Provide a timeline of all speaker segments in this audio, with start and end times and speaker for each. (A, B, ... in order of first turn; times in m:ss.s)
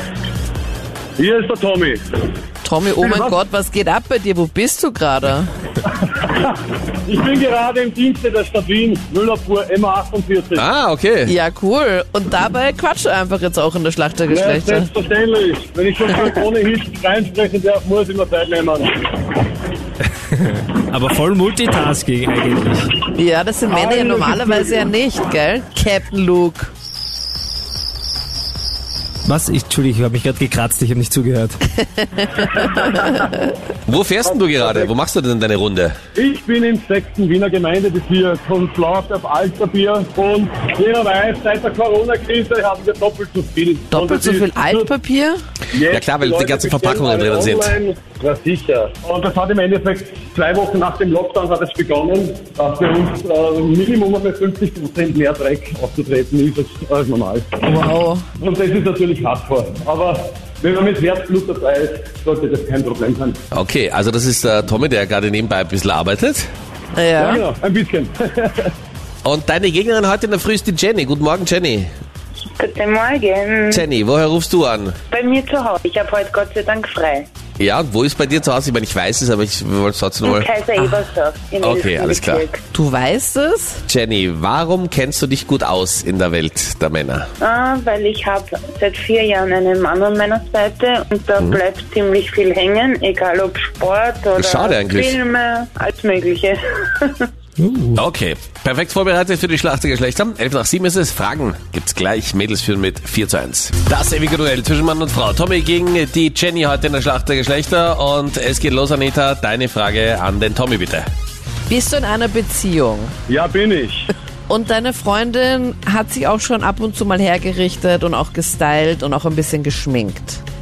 0:01.2-0:02.0 A
0:02.6-0:05.5 B
0:03.0-0:03.4 A
0:05.8-0:10.7 A
0:10.5-0:11.3 C
0:11.2-0:14.9 B
0:14.3-0:18.9 A
0:20.3-0:23.0 D
0:23.1-0:26.7 B
0:23.7-0:24.6 A
0:29.2-0:31.6 D
0:32.0-0:33.3 B
0:32.5-0:33.3 A
0:33.9-0:36.0 C
0:34.2-0:34.9 A
0:36.1-0:44.9 A
0:43.9-0:45.4 B
0:45.7-0:57.6 A
0:45.9-0:47.8 C
0:57.6-0:58.2 B
0:58.4-1:03.4 A
1:03.5-1:06.5 C
1:06.9-1:07.4 B
1:07.2-1:08.7 A
1:09.2-1:11.9 C
1:12.6-1:13.8 E
1:13.7-1:15.0 C
1:15.1-1:17.3 E
1:17.6-1:20.5 C
1:20.2-1:22.6 E
1:21.6-1:22.4 C
1:22.7-1:23.8 B
1:23.9-1:27.3 C
1:27.4-1:37.3 E
1:34.4-1:35.2 C
1:37.6-1:38.0 D
1:37.9-1:51.1 C
1:51.7-1:53.1 B
1:53.3-1:54.1 A
1:54.5-2:00.4 B